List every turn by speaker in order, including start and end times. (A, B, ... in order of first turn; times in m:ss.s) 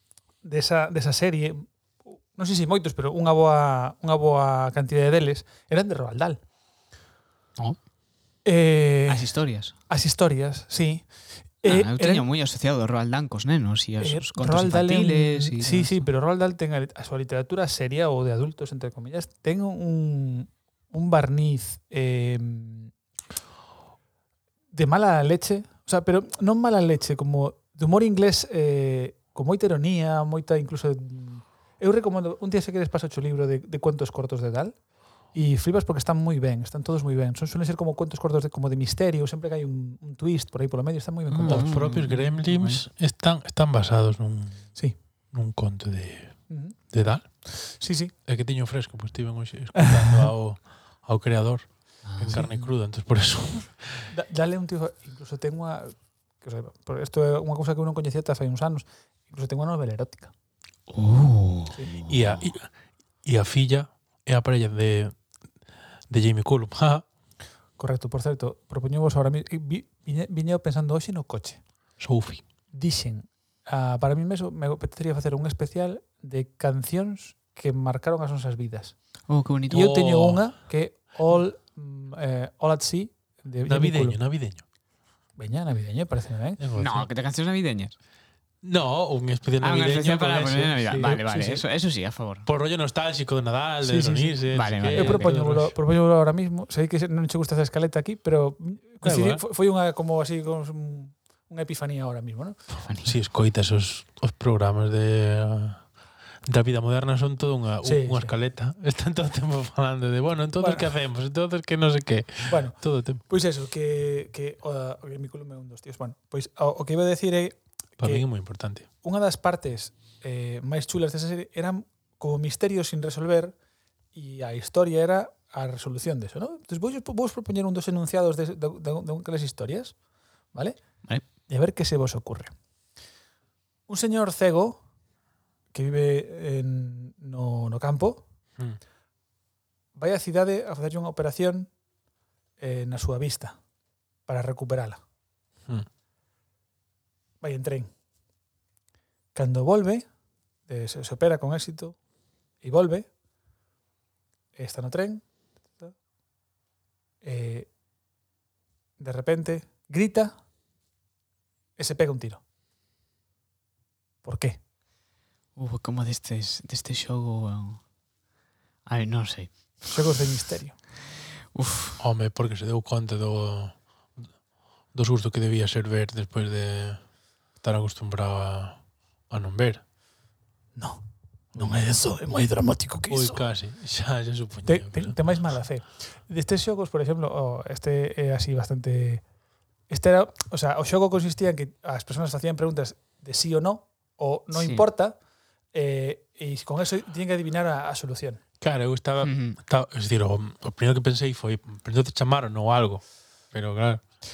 0:00.4-0:06.4 A
0:08.4-0:09.3 A
0:09.1-0:09.7 B
0:09.9-0:11.1 A
0:11.6-0:12.2 A
0:11.6-0:16.0 B
0:14.0-0:22.9 A
0:24.7-0:34.7 A
0:35.3-0:41.7 A
0:41.3-0:42.8 B
0:41.4-0:44.6 C
0:45.3-0:46.3 C
0:46.5-0:46.8 A
0:46.9-0:47.2 C
0:47.5-0:48.1 A
0:48.2-0:54.1 C
0:49.7-0:50.2 A
0:52.0-0:52.7 B
0:54.1-1:00.3 A
1:00.9-1:02.0 B
1:02.0-1:02.7 C
1:03.2-1:05.2 C
1:06.1-1:07.0 C
1:07.8-1:11.6 A
1:12.0-1:12.4 C
1:12.7-1:18.9 A
1:19.3-1:19.9 B
1:19.7-1:20.4 C
1:19.7-1:24.2 A
1:23.6-1:24.6 C
1:25.4-1:26.6 A
1:26.6-1:27.1 C
1:26.8-1:27.9 B
1:28.6-1:31.4 C
1:29.6-1:32.5 B
1:31.0-1:31.6 A
1:32.4-1:35.7 C
1:33.8-1:34.4 A
1:34.5-1:35.3 B
1:34.9-1:42.6 A
1:39.0-1:39.4 C
1:42.8-1:43.1 B
1:43.0-1:45.8 C
1:46.4-1:53.2 C
1:47.8-1:48.3 A
1:50.6-1:50.9 A
1:52.5-1:58.2 A
1:58.0-1:58.8 C
1:59.0-2:03.5 A
2:04.1-2:09.9 A
2:11.5-2:12.5 A
2:13.9-2:14.8 A
2:15.7-2:18.2 A
2:19.9-2:21.7 A
2:22.6-2:23.6 A
2:24.3-2:25.0 A
2:27.4-2:27.9 A
2:29.3-2:30.0 A
2:30.7-2:32.0 A
2:32.6-2:33.1 A
2:34.6-2:35.2 A
2:37.2-2:37.7 A
2:39.0-2:40.3 A
2:41.8-2:42.4 A
2:44.2-2:44.6 A
2:45.6-2:47.8 B
2:48.8-2:49.5 B
2:49.8-2:50.8 A
2:51.5-2:52.0 B
2:52.0-2:54.3 C
2:54.9-2:57.0 C
2:57.6-2:59.8 C
3:00.8-3:03.4 A
3:03.1-3:05.2 C
3:04.6-3:09.2 A
3:09.9-3:15.2 A
3:14.5-3:14.8 B
3:15.7-3:18.4 A
3:18.6-3:24.0 C
3:19.2-3:19.6 B